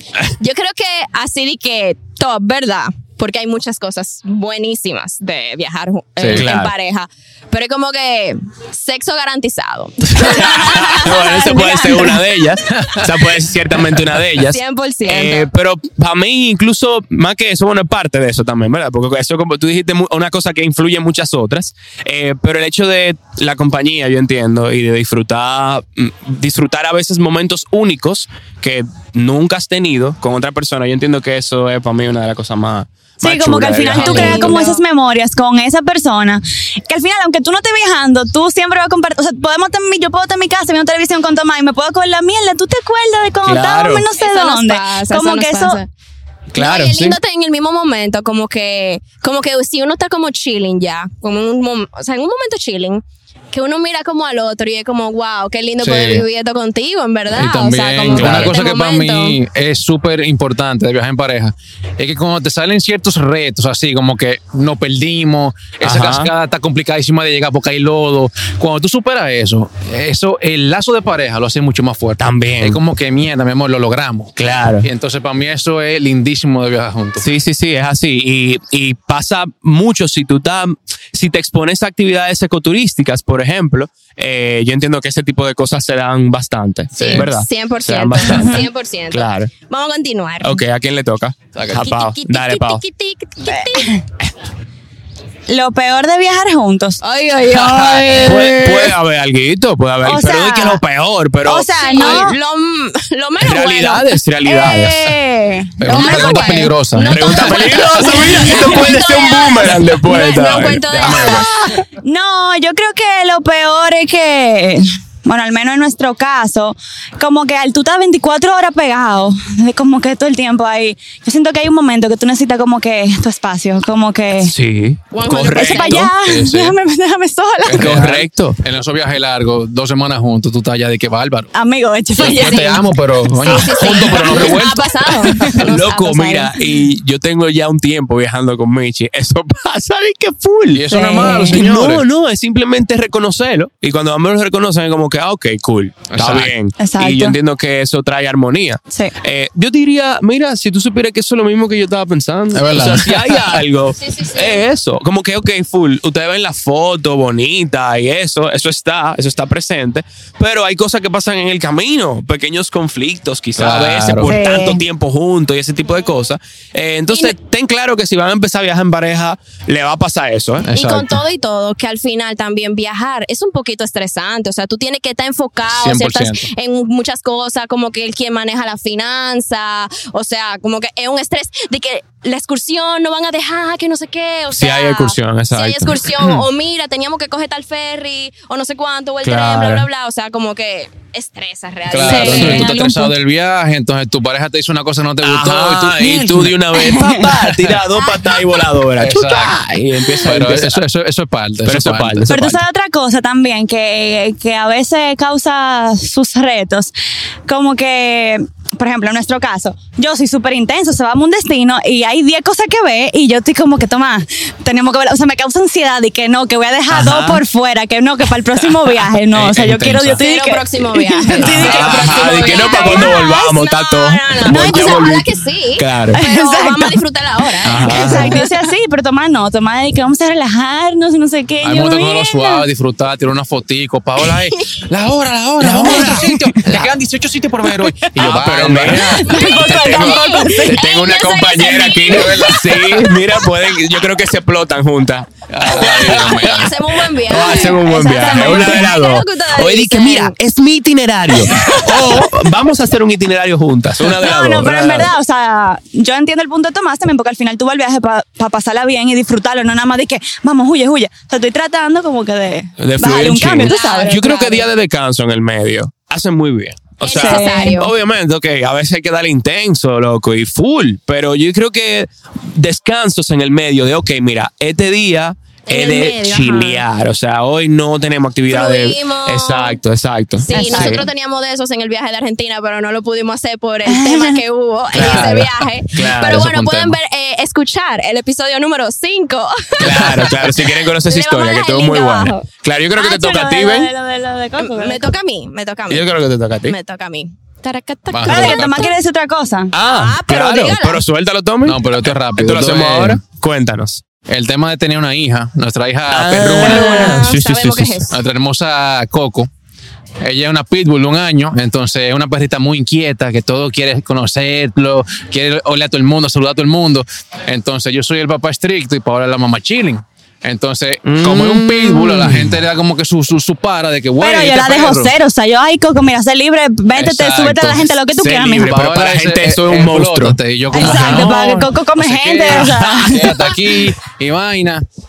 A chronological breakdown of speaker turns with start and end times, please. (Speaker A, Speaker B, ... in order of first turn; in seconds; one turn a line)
Speaker A: 0.4-12.2
Speaker B: 6.2-6.4
Speaker C: 6.3-6.7
Speaker C: 10.1-34.6
Speaker A: 14.4-15.5
Speaker D: 33.2-45.8
Speaker A: 33.9-34.8
Speaker C: 43.4-44.1
Speaker A: 44.2-45.9
Speaker C: 46.5-47.2
Speaker A: 46.5-59.4
Speaker B: 55.8-56.2
Speaker B: 57.3-77.2
Speaker C: 58.1-58.6
Speaker C: 65.8-66.3
Speaker C: 72.2-72.8
Speaker C: 74.4-74.9
Speaker C: 77.2-89.5
Speaker A: 86.9-90.6
Speaker D: 88.3-88.6
Speaker C: 90.4-92.8
Speaker A: 91.7-94.0
Speaker D: 93.5-94.0
Speaker D: 95.5-97.0
Speaker A: 97.0-98.9
Speaker B: 97.6-98.0
Speaker C: 98.2-102.3
Speaker D: 100.0-100.8
Speaker D: 101.4-102.4
Speaker A: 101.8-104.1
Speaker C: 103.4-105.1
Speaker D: 104.4-106.7
Speaker B: 105.8-107.4
Speaker A: 105.9-111.8
Speaker C: 107.0-111.5
Speaker D: 108.0-108.9
Speaker D: 111.2-124.5
Speaker C: 124.4-126.1
Speaker A: 125.1-126.0
Speaker D: 125.5-128.0
Speaker B: 126.0-126.8
Speaker C: 127.7-128.6
Speaker B: 127.7-131.5
Speaker D: 131.5-132.8
Speaker B: 132.2-135.2
Speaker A: 132.3-132.7
Speaker A: 133.4-136.5
Speaker C: 133.5-134.6
Speaker D: 135.3-136.2
Speaker C: 135.4-170.7
Speaker B: 140.7-142.0
Speaker D: 140.9-141.6
Speaker B: 146.1-146.5
Speaker D: 146.8-147.3
Speaker B: 152.5-153.5
Speaker A: 154.0-154.6
Speaker B: 163.6-164.3
Speaker D: 164.2-164.8
Speaker B: 170.6-171.2
Speaker A: 170.7-192.7
Speaker B: 175.7-176.5
Speaker C: 184.5-186.4
Speaker C: 189.2-189.9
Speaker B: 191.9-196.6
Speaker D: 192.0-193.1
Speaker C: 192.2-192.6
Speaker C: 195.2-200.8
Speaker D: 196.7-197.2
Speaker B: 199.0-199.6
Speaker B: 200.2-202.3
Speaker C: 201.6-202.6
Speaker D: 202.3-206.9
Speaker D: 207.5-223.3
Speaker C: 216.9-217.4
Speaker B: 219.3-220.2
Speaker A: 220.2-228.6
Speaker C: 221.4-226.2
Speaker D: 224.5-225.1
Speaker D: 226.1-227.0
Speaker C: 227.6-228.4
Speaker D: 227.7-232.6
Speaker B: 231.6-239.4
Speaker A: 234.2-234.6
Speaker C: 235.6-236.9
Speaker D: 235.9-236.3
Speaker C: 238.1-255.1
Speaker D: 239.2-240.8
Speaker A: 239.3-243.1
Speaker B: 242.1-243.0
Speaker B: 245.5-246.8
Speaker A: 245.7-250.3
Speaker D: 247.8-248.9
Speaker D: 251.6-251.8
Speaker D: 254.2-264.2
Speaker C: 262.8-281.1
Speaker A: 263.6-264.7
Speaker A: 267.0-267.9
Speaker D: 267.1-267.8
Speaker A: 275.7-276.8
Speaker A: 278.5-279.8
Speaker A: 280.4-292.4
Speaker D: 280.5-281.0
Speaker D: 283.9-284.4
Speaker C: 284.9-286.5
Speaker B: 284.9-285.5
Speaker B: 286.1-286.9
Speaker C: 289.8-293.9
Speaker B: 289.8-290.3
Speaker D: 292.9-295.1
Speaker A: 294.6-296.1
Speaker C: 295.9-296.8
Speaker A: 296.6-298.9
Speaker B: 298.1-298.9
Speaker D: 298.2-299.7
Speaker C: 299.7-304.0
Speaker A: 299.8-301.0
Speaker B: 301.6-303.2
Speaker B: 304.3-307.2
Speaker C: 306.1-308.1
Speaker A: 306.5-308.2
Speaker B: 308.1-309.5
Speaker B: 310.2-325.1
Speaker C: 321.0-322.6
Speaker D: 324.2-328.8
Speaker B: 326.9-328.0
Speaker C: 328.1-331.3
Speaker B: 328.5-334.8
Speaker D: 330.7-333.4
Speaker C: 332.5-333.5